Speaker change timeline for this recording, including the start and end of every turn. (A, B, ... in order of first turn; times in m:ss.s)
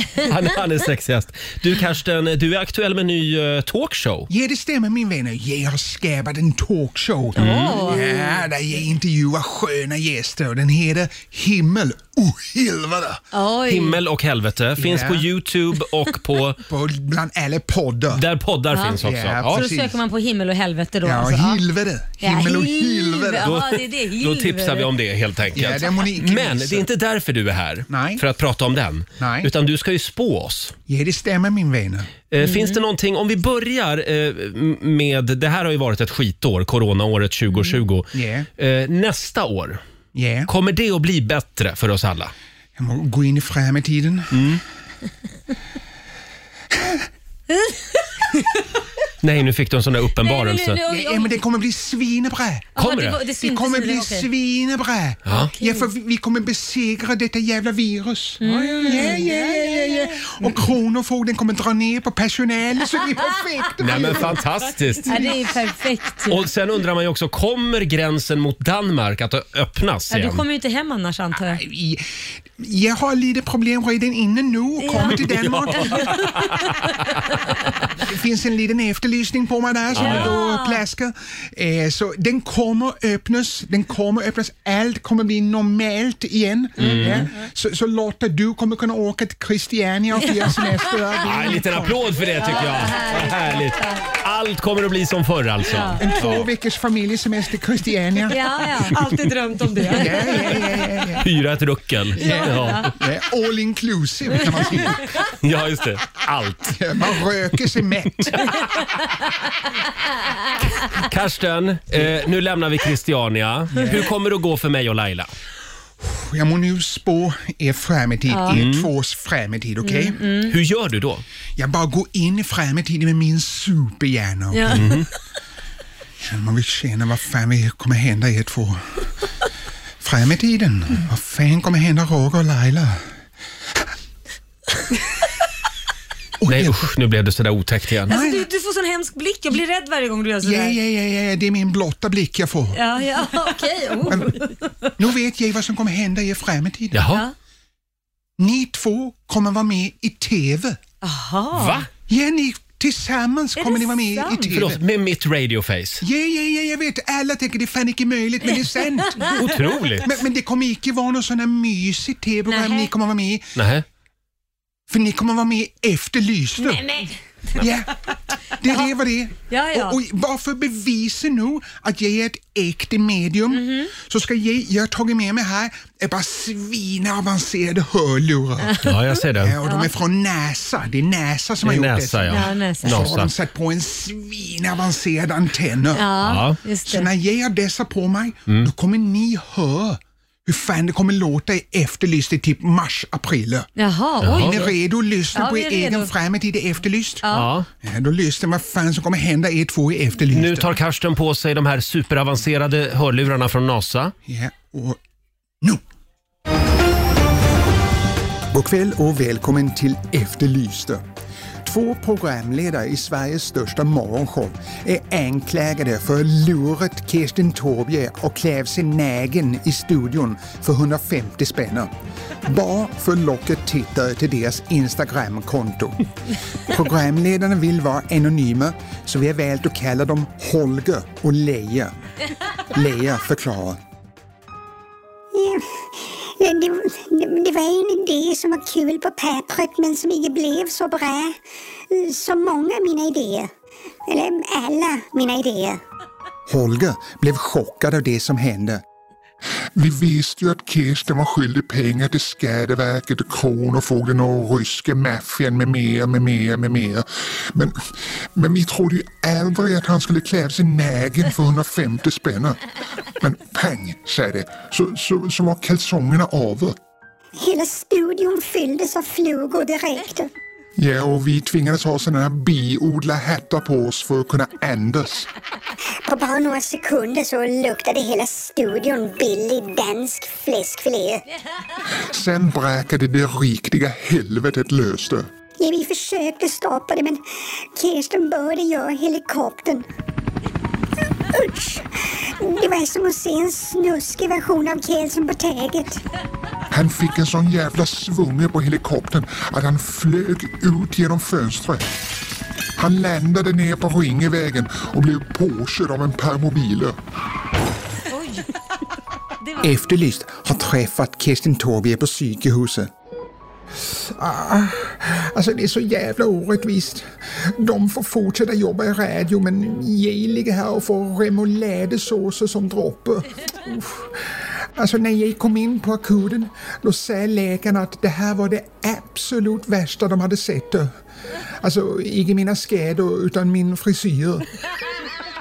0:00.2-0:04.3 A
0:04.3-0:13.2 B
0:07.4-0:08.0 A
0:07.4-0:08.4 C
0:13.3-0:14.0 C
0:13.7-0:16.6 A
0:14.8-0:15.2 B
0:16.6-0:18.2 B
0:18.1-0:19.6 A
0:18.7-0:21.6 C
0:18.9-0:20.0 B
0:21.0-0:23.6 B
0:22.2-0:24.9 C
0:23.4-0:30.7 A
0:25.5-0:26.9 B
0:27.9-0:28.2 B
0:29.2-0:29.5 B
0:30.9-0:32.1 B
0:32.3-0:39.8 A
0:32.4-0:32.8 C
0:38.1-0:38.5 B
0:40.1-0:40.5 B
0:40.5-0:42.3 A
0:42.8-0:44.5 B
0:44.3-0:44.6 A
0:46.7-0:47.0 B
0:49.2-0:50.8 A
0:50.2-0:51.4 C
0:50.8-0:52.7 B
0:52.8-0:54.3 C
0:52.8-0:53.2 A
0:53.4-1:04.4 B
0:55.2-0:55.5 A
0:55.3-0:55.9 C
0:58.4-1:00.6 C
0:58.4-0:59.0 D
1:03.8-1:05.3 A
1:05.1-1:06.4 C
1:06.3-1:10.4 A
1:10.1-1:11.6 C
1:11.4-1:12.0 B
1:12.6-1:16.2 B
1:14.8-1:16.9 C
1:15.1-1:17.5 A
1:18.0-1:32.0 B
1:19.9-1:20.4 A
1:19.9-1:20.8 C
1:26.8-1:27.3 A
1:26.8-1:27.3 C
1:30.4-1:30.7 C
1:31.2-1:36.5 A
1:32.4-1:34.0 C
1:35.7-1:36.0 C
1:36.0-1:38.4 B
1:38.3-1:39.0 C
1:38.9-1:40.6 D
1:39.8-1:41.3 B
1:40.0-1:40.6 C
1:41.2-1:42.9 A
1:42.2-1:45.1 B
1:42.2-1:42.9 C
1:45.2-1:46.8 A
1:46.7-1:48.6 B
1:48.2-1:48.6 A
1:50.9-1:55.3 A
1:53.7-1:54.0 B
1:56.0-2:00.2 B
1:58.3-1:58.6 C
1:58.5-1:58.9 A
1:59.8-2:00.5 C
2:00.5-2:01.2 A
2:01.6-2:05.0 B
2:04.5-2:04.9 C
2:04.7-2:05.1 A
2:06.2-2:08.8 B
2:10.0-2:13.1 B
2:16.4-2:16.8 B
2:16.5-2:18.2 A
2:18.1-2:20.8 C
2:18.1-2:18.5 B
2:20.4-2:22.8 B
2:22.7-2:24.9 C
2:24.1-2:24.4 B
2:25.0-2:27.0 B
2:26.9-2:27.2 A
2:28.4-2:30.8 B
2:31.0-2:31.8 C
2:31.5-2:31.9 A
2:32.1-2:34.8 B
2:33.6-2:34.5 C
2:34.5-2:36.0 A
2:36.0-2:39.5 B
2:38.5-2:39.3 C
2:39.3-2:40.1 A
2:40.0-2:43.5 B
2:42.5-2:42.9 C
2:43.5-2:43.8 A
2:44.9-2:46.8 B
2:46.6-2:47.1 C
2:47.6-2:47.9 B
2:48.6-2:58.8 B
2:48.6-2:48.9 C
2:49.5-2:50.0 C
2:53.5-2:53.9 C
2:58.6-2:59.9 C
2:58.8-2:59.6 A
2:59.4-3:06.1 B
3:01.6-3:03.3 A
3:02.3-3:03.2 C
3:05.9-3:07.1 C
3:06.2-3:06.6 A
3:06.8-3:13.7 B
3:13.8-3:14.8 C
3:14.2-3:14.6 A
3:14.3-3:17.2 B
3:15.3-3:16.1 C
3:17.2-3:17.5 C
3:17.3-3:17.7 A
3:17.8-3:20.8 B
3:20.3-3:24.1 A
3:24.2-3:25.0 B
3:28.5-3:31.0 B
3:31.6-3:41.9 B
3:42.4-3:46.0 B
3:46.7-3:51.9 B
3:52.7-3:53.8 B
3:55.3-4:01.4 E
4:01.9-4:03.5 E
4:04.1-4:05.8 E
4:06.5-4:08.8 B
4:09.8-4:22.6 F
4:23.2-4:26.8 F
4:27.4-4:30.3 E
4:30.8-4:35.3 F
4:36.0-4:41.2 E
4:41.9-4:45.3 F
4:45.6-4:49.8 E
4:51.3-4:56.0 E
4:56.7-5:01.8 F
5:02.8-5:07.0 F
5:08.1-5:08.5 C
5:09.4-5:09.7 C
5:09.6-5:12.9 B
5:13.8-5:30.9 B
5:31.6-5:34.4 B